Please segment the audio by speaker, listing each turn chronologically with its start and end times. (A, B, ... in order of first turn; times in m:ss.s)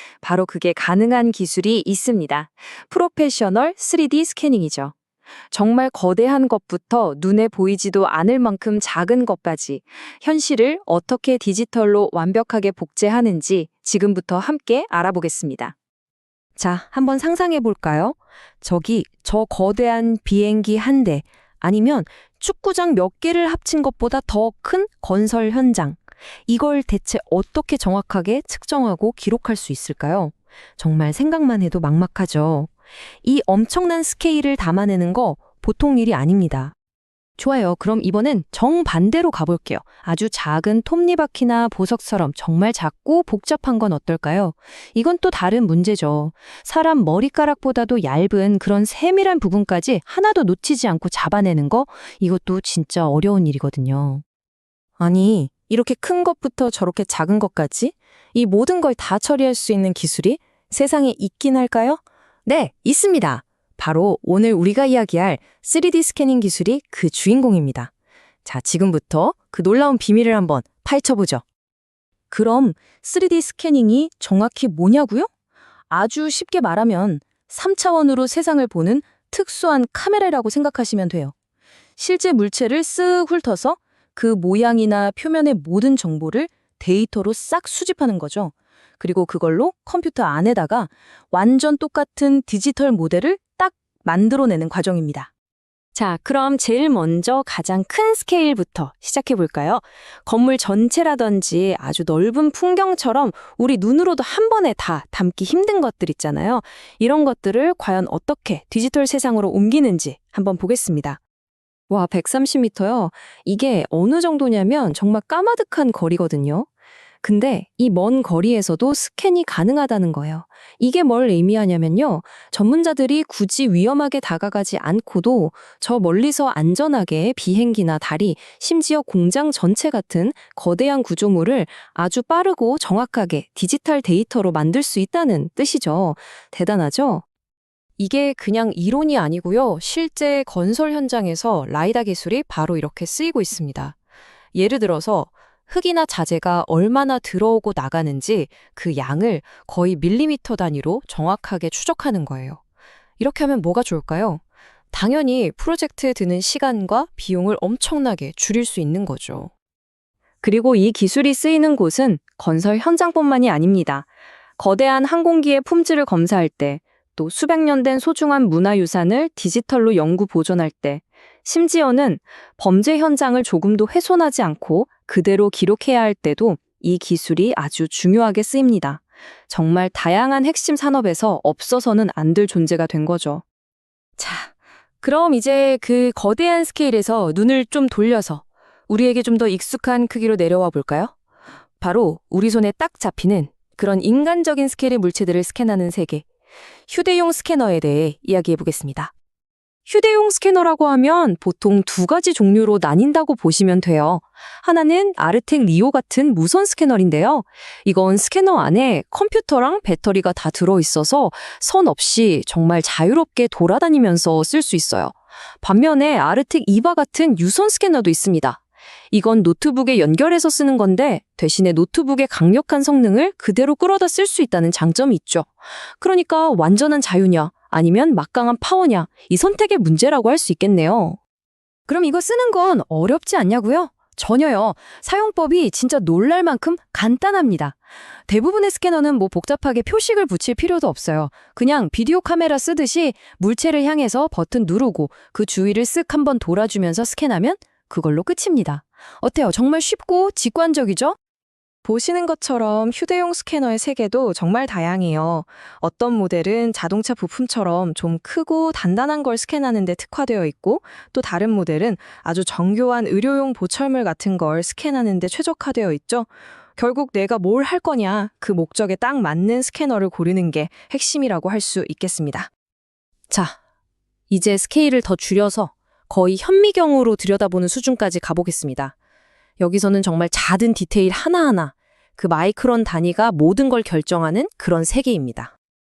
0:00.2-0:04.9 A
0:05.5-0:15.8 A
0:16.6-0:32.7 A
0:33.2-0:36.7 A
0:37.4-0:54.2 A
0:55.0-1:07.9 A
1:08.4-1:11.4 A
1:12.3-1:15.3 A
1:15.9-1:21.3 A
1:22.0-1:35.3 A
1:36.0-1:51.2 A
1:51.9-1:56.7 A
1:57.2-2:17.2 A
2:18.0-2:24.0 A
2:24.5-2:32.6 A
2:33.2-2:39.5 A
2:40.4-2:44.1 A
2:44.6-3:03.4 A
3:04.2-3:11.1 A
3:11.8-3:16.2 A
3:16.9-3:19.1 A
3:19.9-3:38.6 A
3:39.1-3:51.2 A
3:51.9-4:11.2 A
4:11.8-4:32.5 A
4:33.3-4:33.6 A
4:34.3-4:38.9 A
4:39.6-4:45.5 A